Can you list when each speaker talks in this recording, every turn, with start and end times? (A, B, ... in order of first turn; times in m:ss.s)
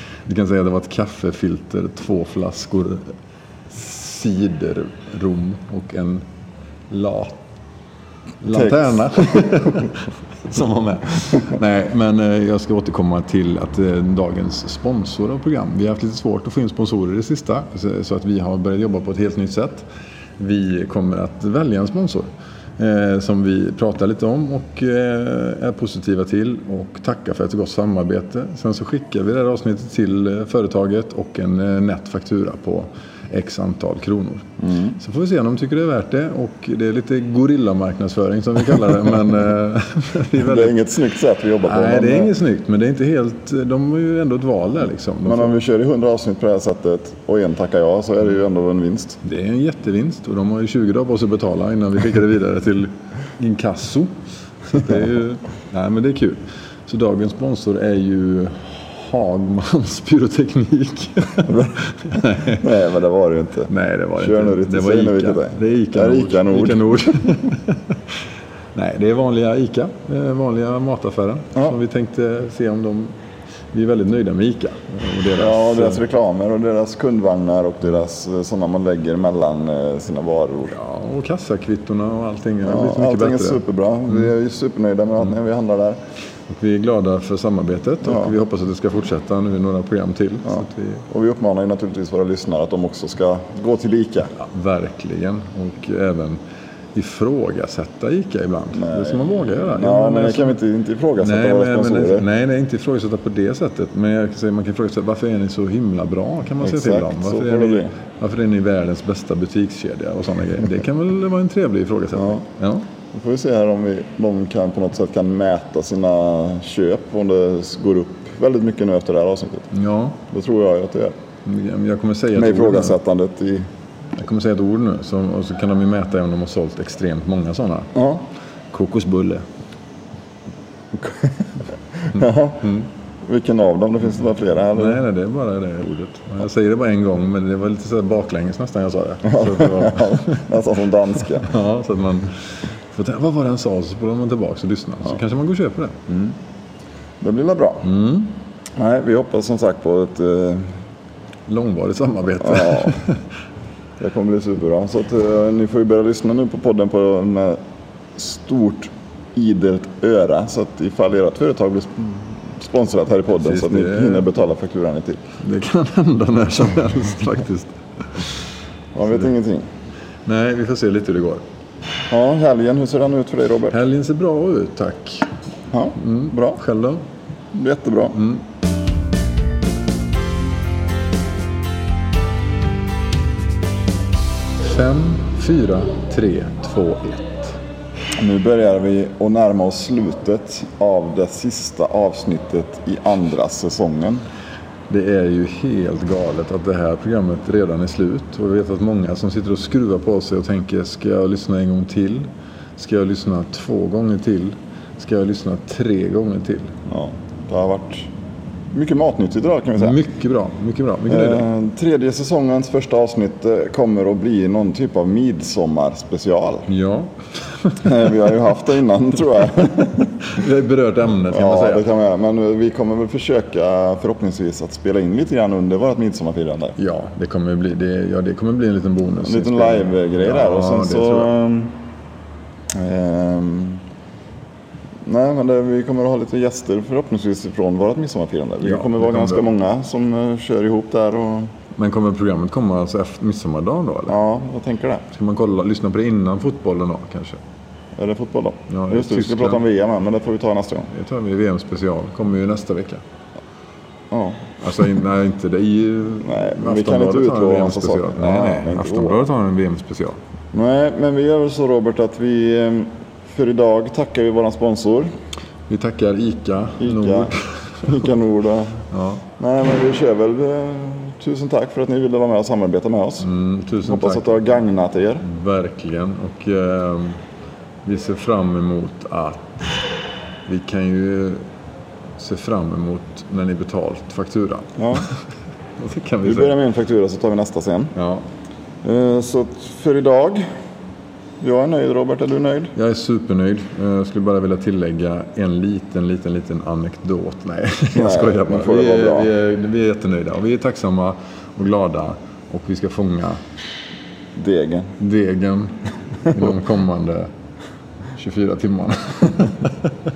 0:00.2-0:03.1 A
0:03.7-0:06.2 A
0:06.9-0:07.4 A
0:08.4-0:40.8 A
0:08.5-0:09.4 B
0:34.6-0:35.0 B
0:40.4-0:42.3 B
0:41.6-0:45.6 A
0:45.2-0:49.2 B
0:49.2-1:02.7 A
1:02.5-1:07.3 B
1:03.7-1:08.1 A
1:08.7-1:13.1 A
1:13.7-1:16.0 A
1:15.4-1:20.8 B
1:20.7-1:23.6 A
1:22.6-1:26.0 B
1:26.5-1:31.1 A
1:28.0-1:28.3 B
1:30.5-1:34.3 B
1:34.3-1:36.4 A
1:36.9-1:40.6 A
1:38.7-1:42.2 B
1:41.2-1:52.9 A
1:46.6-1:47.9 B
1:52.2-1:52.4 B
1:53.1-1:59.7 B
1:59.7-2:00.2 A
2:00.3-2:01.2 B
2:01.4-2:03.0 A
2:02.3-2:03.6 B
2:04.2-2:08.0 A
2:07.9-2:08.2 B
2:08.7-2:09.4 A
2:10.9-2:15.0 B
2:12.6-2:12.8 A
2:14.7-2:20.4 A
2:19.2-2:21.5 B
2:21.2-2:26.0 A
2:26.1-2:26.4 B
2:27.2-2:27.9 B
2:27.8-2:28.3 A
2:28.8-2:30.7 B
2:31.5-2:33.2 A
2:32.4-2:33.0 B
2:34.0-2:37.6 B
2:38.2-2:45.2 B
2:43.4-2:44.3 A
2:45.4-2:48.3 A
2:48.9-2:49.6 B
2:50.2-2:51.4 A
2:52.1-2:53.8 B
2:53.7-2:55.3 A
2:55.7-2:56.6 B
2:56.0-2:57.0 A
2:57.5-2:58.2 B
2:58.2-2:58.4 A
3:04.6-3:07.6 A
3:08.2-3:14.2 B
3:14.9-3:26.8 A
3:26.9-3:28.1 B
3:28.7-3:30.0 B
3:29.8-3:31.5 A
3:31.1-3:36.7 B
3:36.7-3:37.8 A
3:37.8-3:40.3 B
3:40.2-3:41.8 A
3:41.3-3:46.8 B
3:46.8-3:51.3 A
3:49.2-3:51.8 B
3:52.7-3:53.8 B
3:55.0-4:01.5 B
3:58.6-3:59.4 A
4:01.8-4:04.2 A
4:04.1-4:05.0 B
4:05.1-4:07.4 A
4:08.0-4:10.9 B
4:08.7-4:09.6 A
4:10.9-4:13.0 A
4:14.1-4:14.5 B
4:14.6-4:20.2 A
4:16.2-4:19.2 B
4:20.5-4:25.1 B
4:25.7-4:28.0 A
4:26.8-4:28.8 B
4:28.9-4:29.2 A
4:29.4-4:33.3 B
4:33.2-4:34.4 A
4:33.8-4:35.2 B
4:35.2-4:37.2 A
4:37.8-4:39.8 A
4:40.5-4:41.4 A
4:42.2-4:45.1 A
4:44.8-4:45.1 B
4:45.8-4:46.6 A
4:46.2-4:47.9 B
4:47.9-4:48.2 A
4:48.8-4:50.4 B
4:51.4-4:52.7 B
4:52.7-5:03.4 A
4:57.9-4:59.3 B
5:04.4-5:04.9 B
5:05.0-5:07.3 A
5:08.1-5:09.9 A